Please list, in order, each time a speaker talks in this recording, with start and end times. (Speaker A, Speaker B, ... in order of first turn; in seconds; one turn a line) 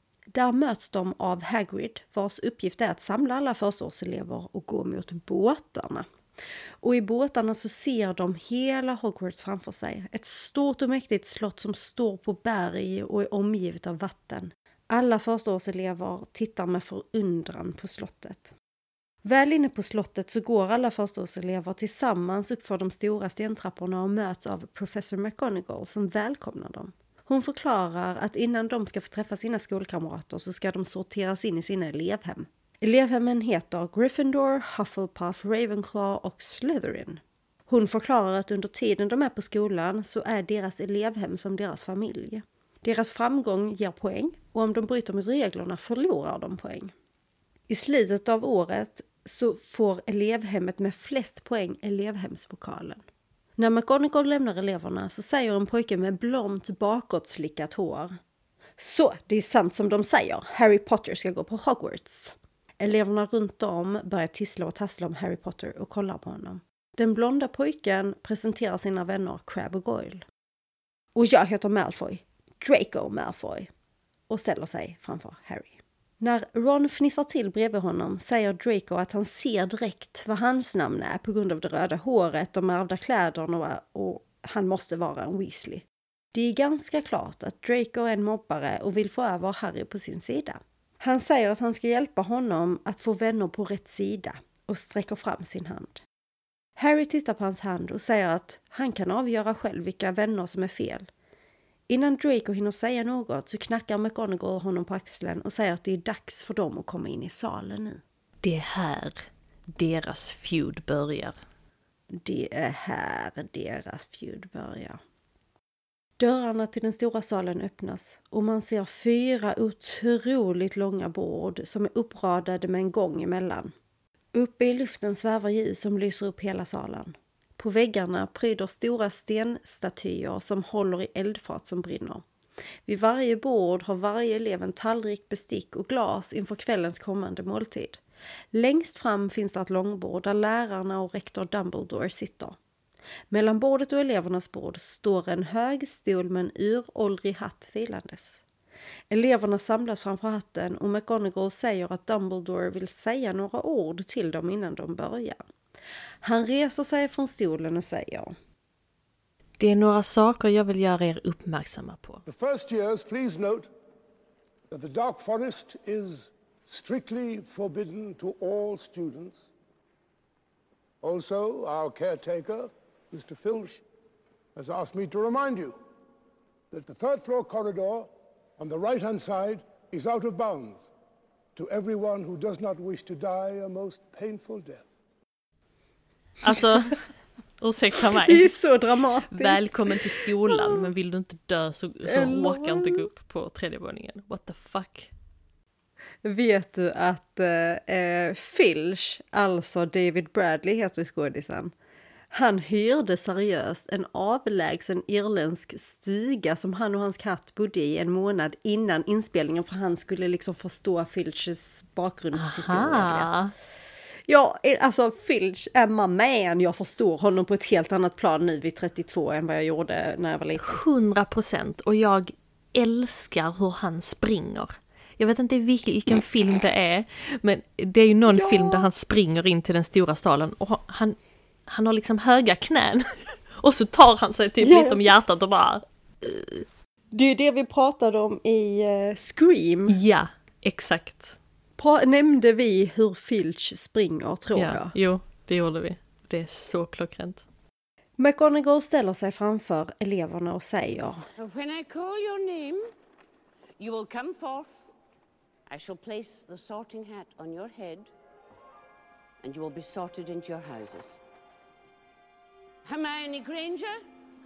Speaker A: 0.3-6.0
Speaker A: 6.8-18.5
Speaker A: 19.2-46.9
Speaker A: 47.7-53.0
Speaker A: 53.6-58.1
Speaker A: 58.8-70.2
Speaker A: 71.1-73.7
Speaker A: 74.3-96.0
Speaker A: 96.8-101.1
Speaker A: 101.9-108.0
Speaker B: 108.4-111.3
Speaker A: 112.1-115.0
Speaker A: 116.2-123.7
Speaker A: 124.3-132.2
Speaker A: 132.9-138.0
Speaker A: 138.5-142.6
Speaker A: 143.3-148.4
Speaker A: 149.1-155.4
Speaker A: 156.2-158.3
Speaker B: 159.6-162.2
Speaker C: 162.3-163.7
Speaker C: 164.7-169.4
Speaker C: 171.0-173.8
Speaker C: 174.6-175.7
Speaker C: 176.7-180.8
Speaker C: 181.6-184.9
Speaker B: 186.4-187.0
Speaker B: 187.6-188.5
Speaker A: 188.2-190.8
Speaker B: 189.3-195.1
Speaker A: 192.0-193.1
Speaker A: 196.2-201.7
Speaker A: 202.3-213.4
Speaker B: 212.3-213.5
Speaker A: 214.3-220.8
Speaker B: 220.6-235.8
Speaker A: 228.3-228.9
Speaker A: 234.6-235.1
Speaker A: 237.1-240.0
Speaker B: 239.9-241.4
Speaker A: 241.8-244.9
Speaker B: 244.5-247.4
Speaker A: 248.2-251.2
Speaker D: 251.4-252.9
Speaker D: 253.8-254.9
Speaker D: 255.7-258.1
Speaker D: 259.4-261.2
Speaker D: 262.9-264.0